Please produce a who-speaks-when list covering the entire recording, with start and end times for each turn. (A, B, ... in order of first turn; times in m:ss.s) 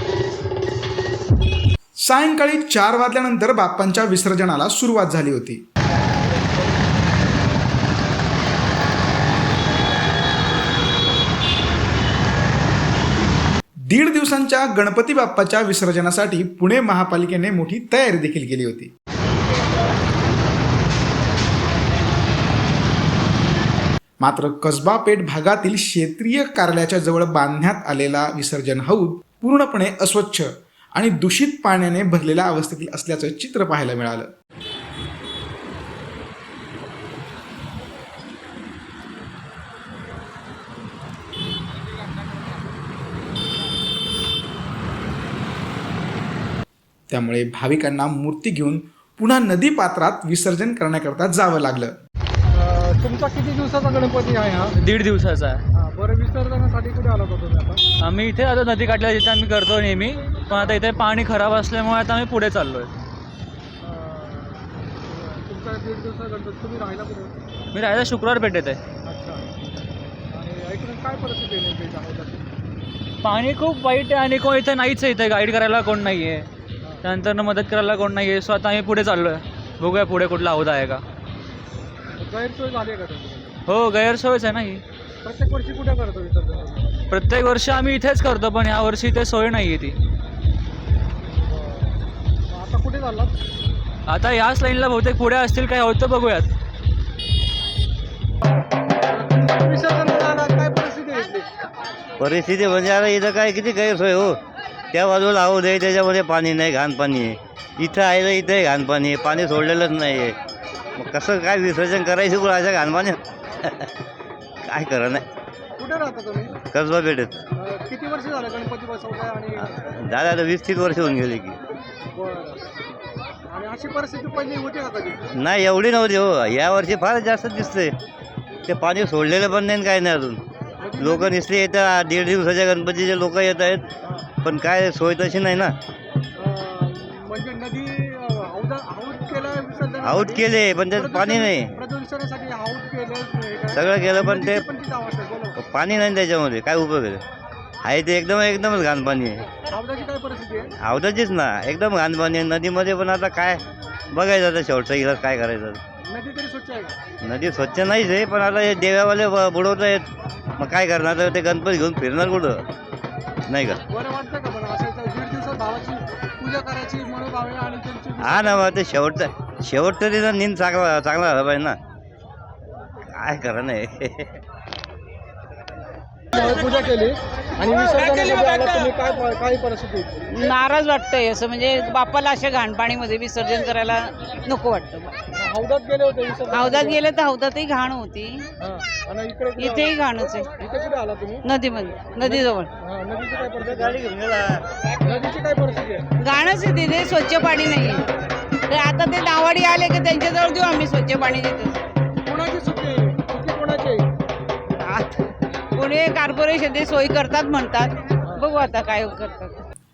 0:02.0-0:05.6 A
0:13.9-0:18.9 A
0:24.2-0:34.3 A
0:47.1-0:51.9 A
0:52.5-0:54.7 B
0:54.8-0:55.6 C
0:55.7-0:57.8 B
0:58.0-1:02.9 C
1:03.8-1:07.4 B
1:07.7-1:08.8 C
1:09.0-1:09.4 B
1:10.3-1:12.5 B
1:13.2-1:16.5 C
1:17.0-1:21.0 C
1:22.2-1:23.6 B
1:23.7-1:24.8 C
1:25.2-1:27.0 B
1:27.1-1:30.0 C
1:31.5-1:31.9 B
1:32.5-1:33.4 B
1:34.1-1:36.5 C
1:39.0-1:41.5 B
1:42.2-1:44.4 D
1:44.9-1:50.4 D
1:51.0-1:53.9 D
1:54.6-1:55.2 D
1:55.8-1:56.5 B
1:56.6-1:57.4 D
1:57.6-1:59.6 B
1:59.6-2:01.6 D
2:02.1-2:02.6 B
2:03.5-2:05.2 B
2:05.4-2:08.0 D
2:08.7-2:10.4 D
2:10.8-2:11.3 B
2:11.0-2:13.8 D
2:14.4-2:15.8 D
2:16.4-2:25.6 B
2:20.0-2:21.7 D
2:23.7-2:24.6 D
2:25.6-2:27.2 D
2:27.8-2:29.5 D
2:29.7-2:30.7 B
2:30.8-2:35.8 D
2:36.0-2:37.0 B
2:37.2-2:40.1 D
2:40.6-2:42.6 D
2:43.5-2:43.8 D
2:43.9-2:48.6 B
2:48.2-2:51.8 D
2:53.1-2:54.4 D
2:56.3-3:00.2 B
3:00.3-3:05.3 E
3:05.3-3:07.0 B
3:06.5-3:08.5 E
3:08.6-3:09.9 B
3:09.6-3:10.5 E
3:10.6-3:11.4 B
3:11.4-3:12.7 E
3:12.2-3:14.0 B
3:13.7-3:14.6 D
3:15.0-3:16.0 B
3:16.2-3:18.1 E
3:18.7-3:21.8 E
3:22.2-3:24.1 B
3:24.7-3:25.1 E
3:25.8-3:29.6 E